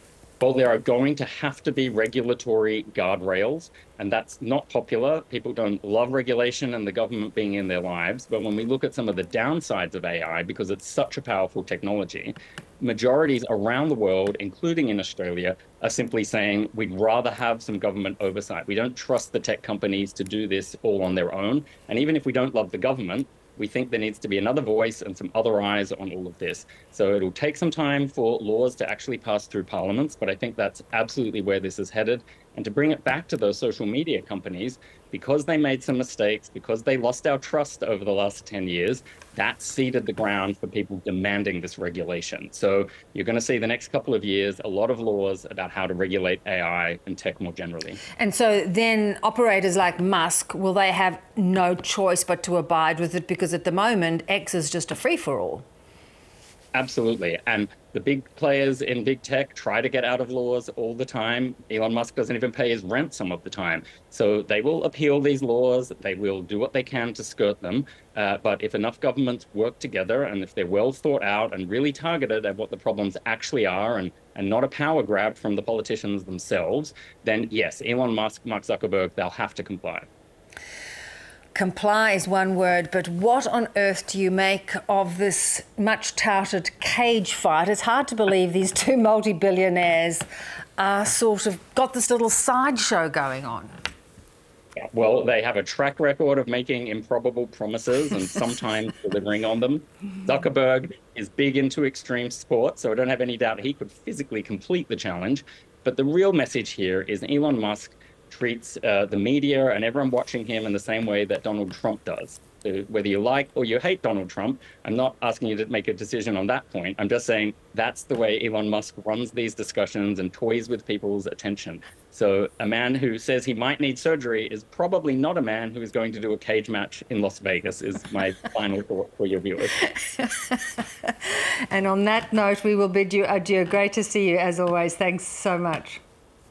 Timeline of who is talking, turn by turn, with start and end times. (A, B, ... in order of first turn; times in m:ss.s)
0:00.4-0:48.0 A
0:48.2-0:55.6 B
0:56.7-1:20.1 A
1:21.5-1:30.2 B
1:30.8-1:33.7 B
1:34.9-2:09.8 A
2:09.8-2:16.0 B